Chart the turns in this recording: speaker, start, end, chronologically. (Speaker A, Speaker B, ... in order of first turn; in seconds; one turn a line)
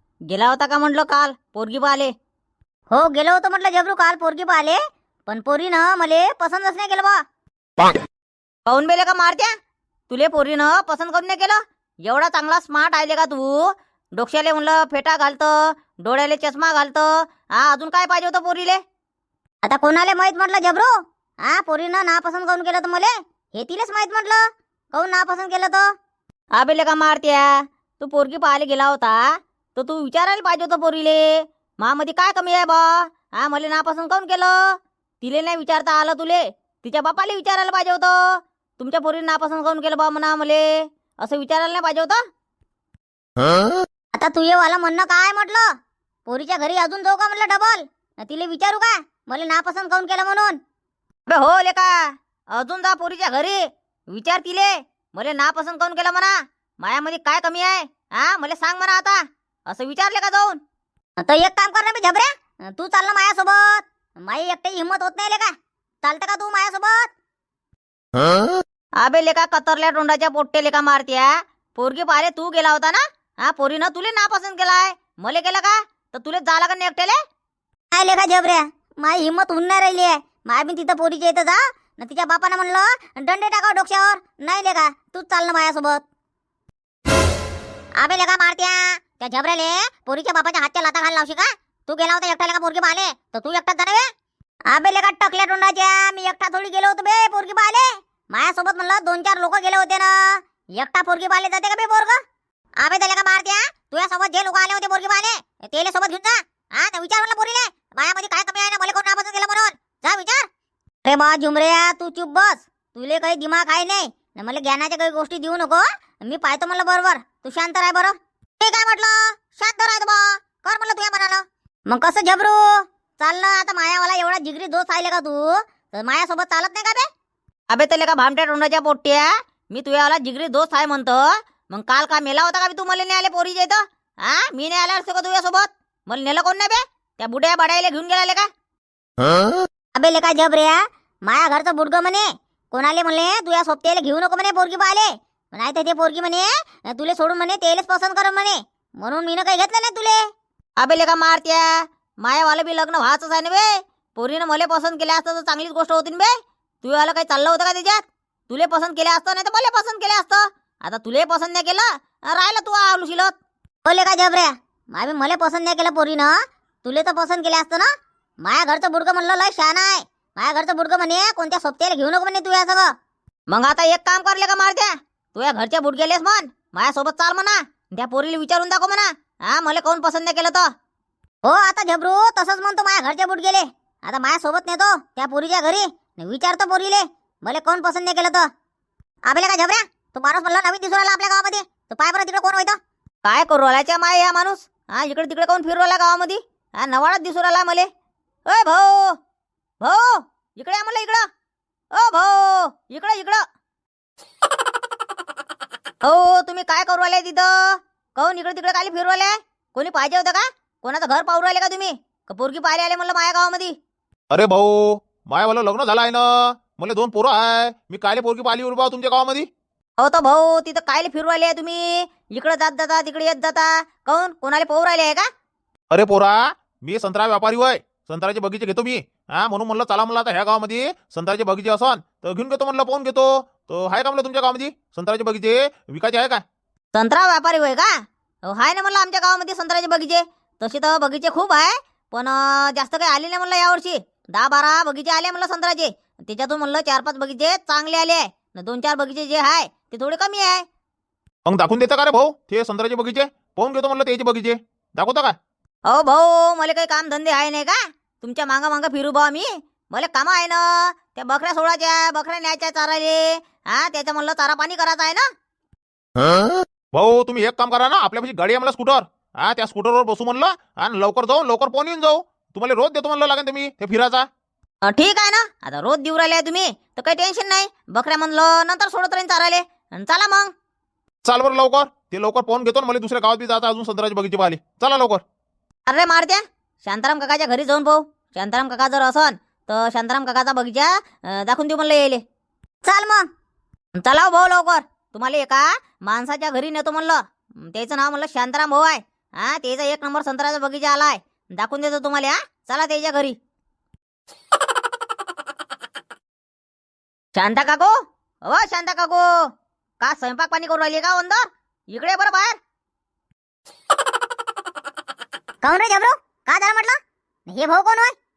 Speaker A: 0.3-2.1
Speaker B: 2.9-7.2
Speaker A: 8.7-9.5
Speaker A: 10.1-18.8
Speaker B: 19.6-20.9
Speaker B: 21.4-24.4
Speaker B: 24.9-25.9
Speaker A: 26.5-42.2
Speaker B: 44.1-45.7
Speaker B: 46.3-50.6
Speaker A: 51.3-60.6
Speaker B: 61.2-67.1
Speaker A: 69.0-77.2
Speaker B: 77.9-86.0
Speaker B: 88.0-94.1
Speaker B: 94.7-102.2
Speaker B: 102.8-110.5
Speaker B: 111.0-127.1
Speaker A: 127.7-138.5
Speaker B: 139.9-150.2
Speaker A: 150.8-163.3
Speaker B: 163.8-167.9
Speaker B: 168.4-172.9
Speaker A: 173.5-180.7
Speaker B: 181.4-188.5
Speaker B: 189.3-192.8
Speaker A: 193.2-197.9
Speaker A: 198.5-199.2
Speaker A: 199.8-201.3
Speaker A: 201.9-203.4
Speaker A: 206.0-213.8
Speaker C: 214.3-219.5
Speaker A: 220.0-225.3
Speaker C: 225.9-236.4
Speaker A: 236.9-237.9
Speaker A: 238.4-250.6
Speaker C: 251.4-255.3
Speaker A: 255.9-265.2
Speaker C: 266.9-274.3
Speaker A: 274.8-280.5
Speaker C: 281.2-285.2
Speaker A: 285.9-292.2
Speaker B: 292.8-293.3
Speaker A: 293.9-303.4
Speaker A: 307.3-307.9
Speaker A: 308.4-309.3
Speaker A: 310.0-312.6
Speaker B: 315.6-318.1